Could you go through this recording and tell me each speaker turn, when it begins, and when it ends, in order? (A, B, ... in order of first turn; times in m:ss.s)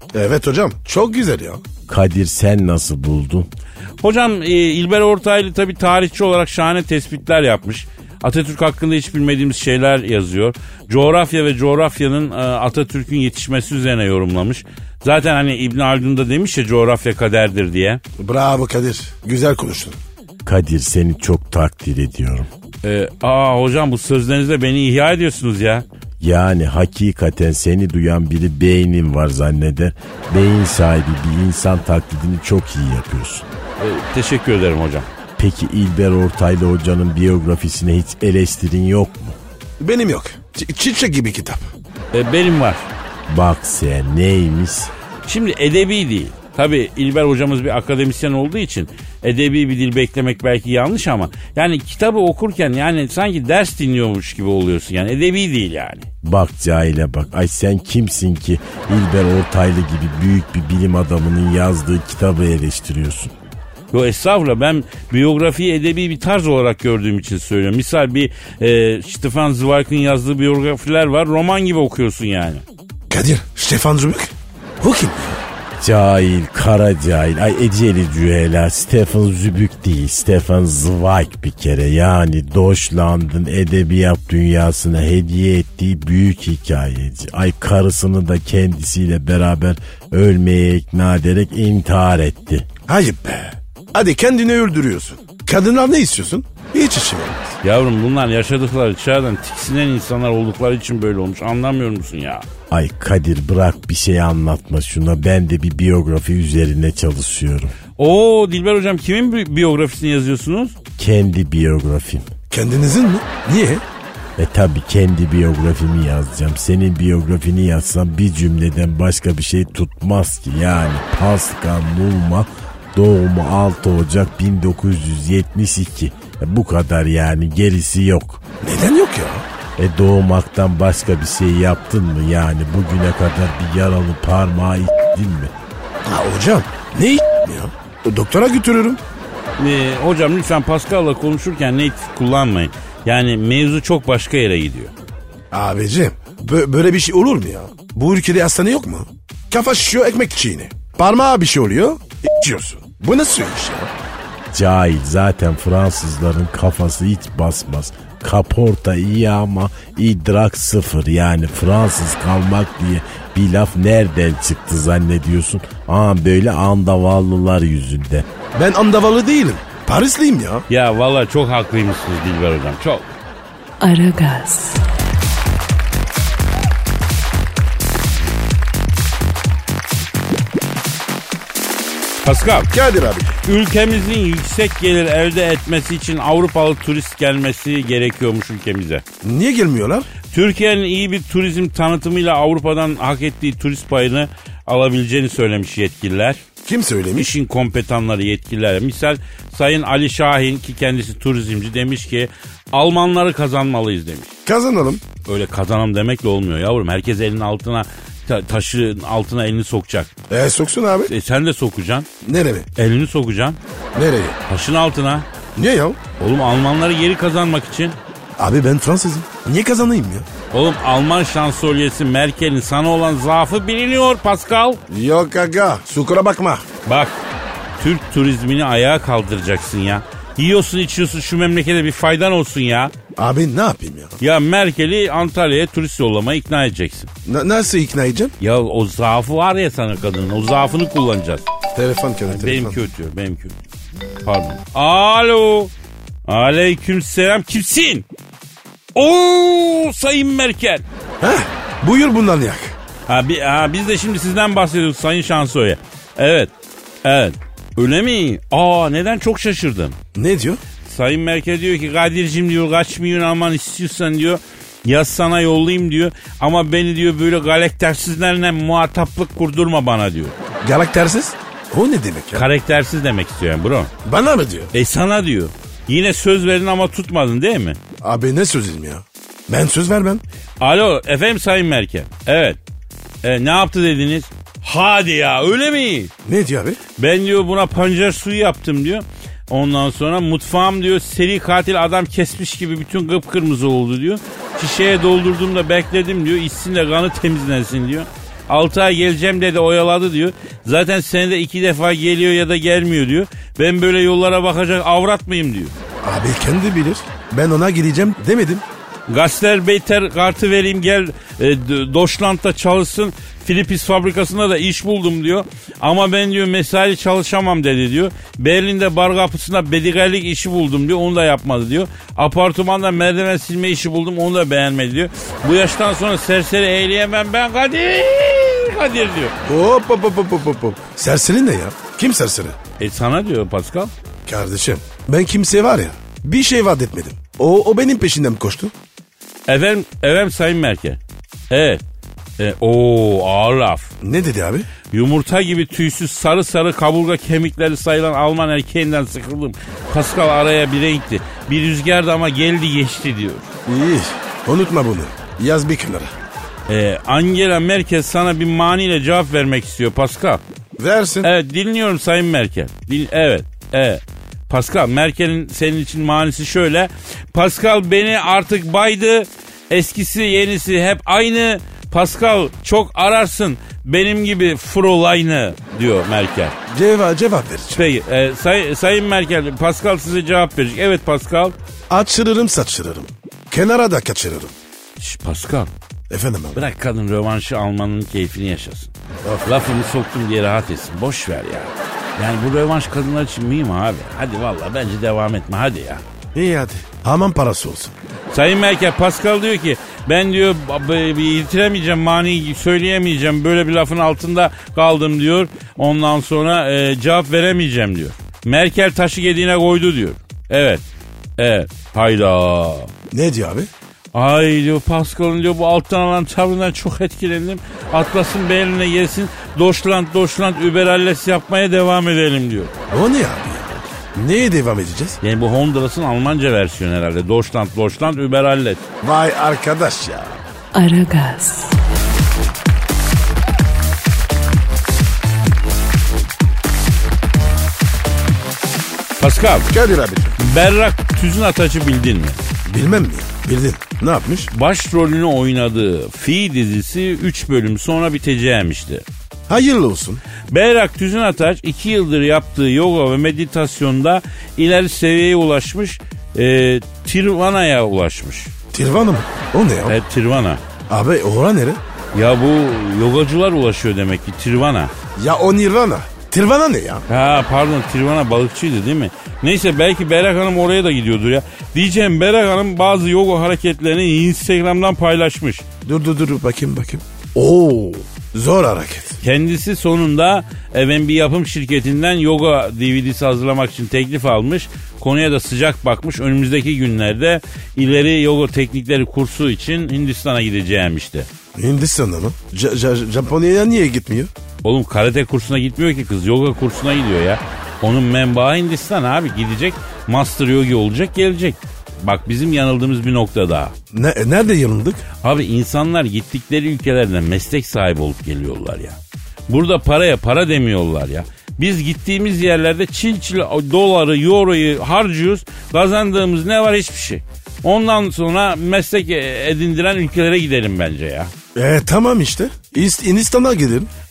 0:00.1-0:01.6 A
0:01.9-0:03.5 B
0:04.0-0:18.0 C
0:18.2-0:20.0 A
0:20.4-0:22.5 B
0:22.8-0:25.8 C
0:26.2-0:33.4 B
0:33.8-0:35.1 C
0:35.4-0:39.4 B
0:39.8-0:41.7 A
0:42.1-0:42.9 C
0:43.3-0:44.9 B
0:45.2-0:56.1 C
0:56.2-1:03.3 B
1:03.9-1:12.6 C
1:13.1-1:15.4 A
1:15.8-1:32.7 B
1:32.9-1:37.6 A
1:37.6-1:42.4 C
1:42.7-1:47.7 B
1:48.0-1:50.8 C
1:51.0-1:52.3 B
1:52.5-1:53.8 A
1:54.4-2:08.4 B
2:08.6-2:09.4 A
2:09.8-2:15.5 B
2:16.0-2:19.0 A
2:19.6-2:24.9 C
2:25.5-2:33.9 A
2:34.5-2:48.3 B
2:48.5-2:50.6 A
2:50.7-2:53.1 C
2:53.8-2:54.8 D
3:02.2-3:02.7 C
3:02.7-3:03.3 A
3:03.4-3:09.0 C
3:09.2-3:10.1 A
3:10.3-3:16.4 C
3:16.6-3:17.3 A
3:17.2-3:24.3 C
3:24.4-3:25.0 A
3:25.2-3:30.1 C
3:30.3-3:31.1 A
3:31.1-3:32.1 C
3:32.2-3:32.7 A
3:32.8-3:33.6 C
3:33.9-3:34.4 A
3:34.5-3:35.2 C
3:35.6-3:36.0 A
3:36.2-3:38.0 C
3:38.4-3:40.3 A
3:40.5-3:44.8 C
3:44.9-3:46.6 A
3:46.8-3:47.1 C
3:47.8-3:52.9 C
3:53.2-3:54.2 A
3:54.2-3:57.1 C
3:57.2-3:58.3 A
3:58.4-4:01.4 C
4:01.7-4:02.8 A
4:02.2-4:03.6 C
4:04.2-4:05.7 C
4:06.3-4:08.0 C
4:08.9-4:10.8 C
4:11.2-4:12.8 A
4:13.1-4:16.5 C
4:17.0-4:20.0 C
4:20.1-4:20.6 A
4:20.8-4:30.3 C
4:30.6-4:32.4 A
4:32.3-4:33.9 C
4:34.0-4:34.7 A
4:34.7-4:37.8 C
4:38.0-4:40.2 A
4:40.6-4:42.6 C
4:43.2-4:46.1 C
4:46.2-4:46.8 A
4:47.0-5:05.7 C
5:06.0-5:08.6 A
5:09.1-5:29.4 C
5:29.4-5:32.6 A
5:32.8-5:33.9 C
5:34.2-5:38.7 A
5:39.5-5:41.8 C
5:42.4-5:43.9 C
5:44.0-5:44.7 A
5:44.9-5:53.5 C
5:53.7-5:56.1 A
5:56.7-6:00.4 C
6:00.8-6:01.3 A
6:01.2-6:16.6 C
6:16.7-6:17.8 A
6:17.7-6:21.5 C
6:21.9-6:24.5 A
6:25.0-6:25.7 C
6:26.1-6:26.6 A
6:26.5-6:28.9 C
6:29.2-6:29.7 A
6:29.4-6:36.0 C
6:36.3-6:37.9 A
6:38.3-6:50.8 C
6:51.4-6:52.9 C
6:53.1-6:53.7 A
6:54.1-7:02.7 C
7:02.9-7:05.2 A
7:05.2-7:08.8 C
7:09.0-7:10.4 A
7:10.7-7:11.8 D
7:19.2-7:19.7 C
7:19.7-7:20.4 A
7:20.4-7:22.4 C
7:22.7-7:24.5 A
7:24.5-7:29.0 C
7:29.5-7:30.2 A
7:30.5-7:38.5 C
7:38.7-7:40.0 A
7:39.8-7:40.6 C
7:40.9-7:41.8 A
7:42.1-7:44.9 C
7:45.2-7:47.0 A
7:47.1-7:55.6 C
7:55.8-7:59.2 A
7:59.2-8:11.3 C
8:11.6-8:14.3 A
8:14.6-8:23.7 C
8:23.9-8:25.0 A
8:25.2-8:41.3 C
8:41.5-8:43.9 A